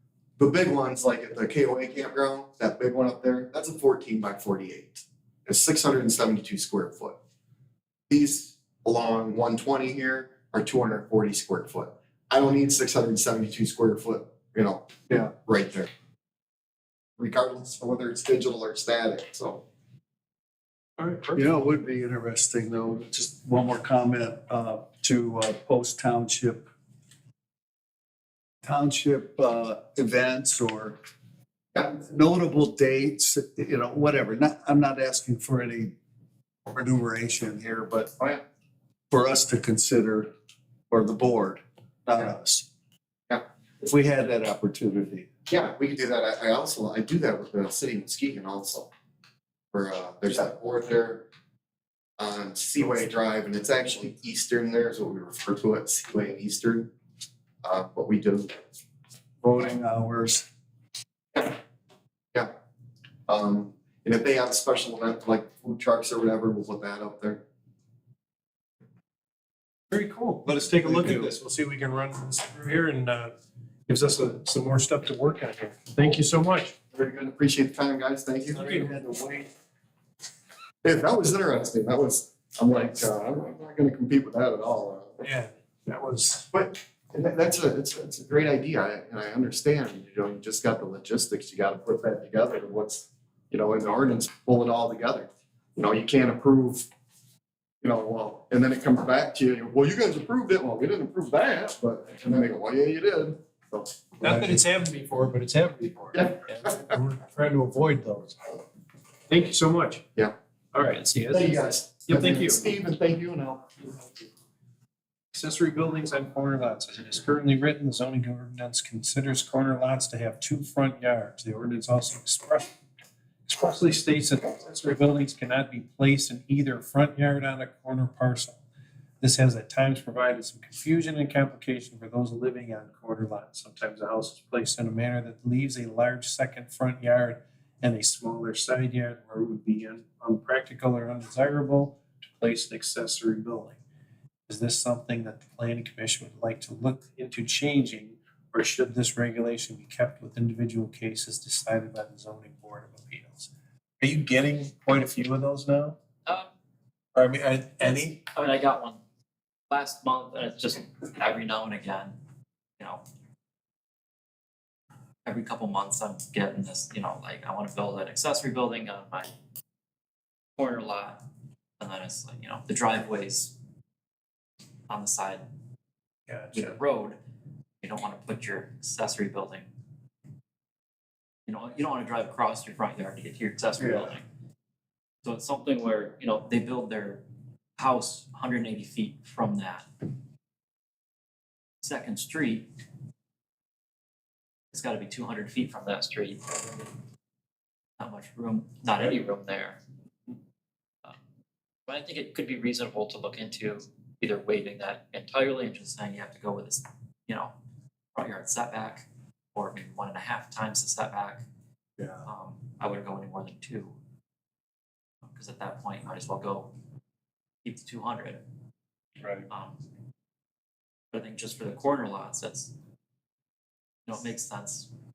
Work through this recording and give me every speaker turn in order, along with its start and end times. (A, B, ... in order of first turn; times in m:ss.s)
0:00.4-0:07.2 A
0:08.1-0:15.9 A
0:17.2-0:19.6 A
0:21.0-0:21.6 B
0:21.3-0:26.7 C
0:28.6-0:31.0 C
0:31.8-0:35.9 C
0:36.7-0:38.1 C
0:39.1-0:40.3 C
0:40.9-0:42.6 C
0:43.8-0:45.3 C
0:45.5-0:48.9 A
0:49.7-0:51.3 A
0:52.2-0:56.9 A
0:57.6-0:58.7 A
0:59.4-1:00.4 C
1:03.3-1:07.4 A
1:09.9-1:13.3 B
1:13.9-1:16.8 B
1:16.9-1:19.5 A
1:18.5-1:19.0 B
1:20.8-1:25.2 A
1:25.2-1:26.5 B
1:26.5-1:36.9 A
1:37.8-1:44.5 A
1:44.2-1:48.4 B
1:46.1-1:46.9 A
1:49.3-1:50.0 B
1:50.7-1:52.6 B
1:51.3-1:54.0 A
1:55.3-2:02.7 B
2:03.4-2:08.6 B
2:09.2-2:23.8 B
2:24.5-2:36.0 B
2:37.1-2:38.2 B
2:37.8-2:39.0 D
2:39.7-2:42.2 D
2:42.8-2:43.0 D
2:45.2-2:49.3 D
2:50.6-2:51.2 D
2:51.8-2:53.5 D
2:54.9-2:55.4 D
2:56.3-2:56.7 B
2:56.5-2:57.2 D
2:57.8-2:59.7 D
3:01.5-3:04.2 D
3:05.2-3:07.2 D
3:07.8-3:09.8 D
3:11.8-3:12.7 D
3:14.7-3:16.9 D
3:18.0-3:19.8 D
3:21.9-3:27.5 D
3:28.1-3:31.4 D
3:32.2-3:34.0 D
3:35.2-3:36.7 D
3:37.6-3:38.4 D
3:39.5-3:39.8 D
3:41.1-3:42.7 D
3:44.1-3:44.9 D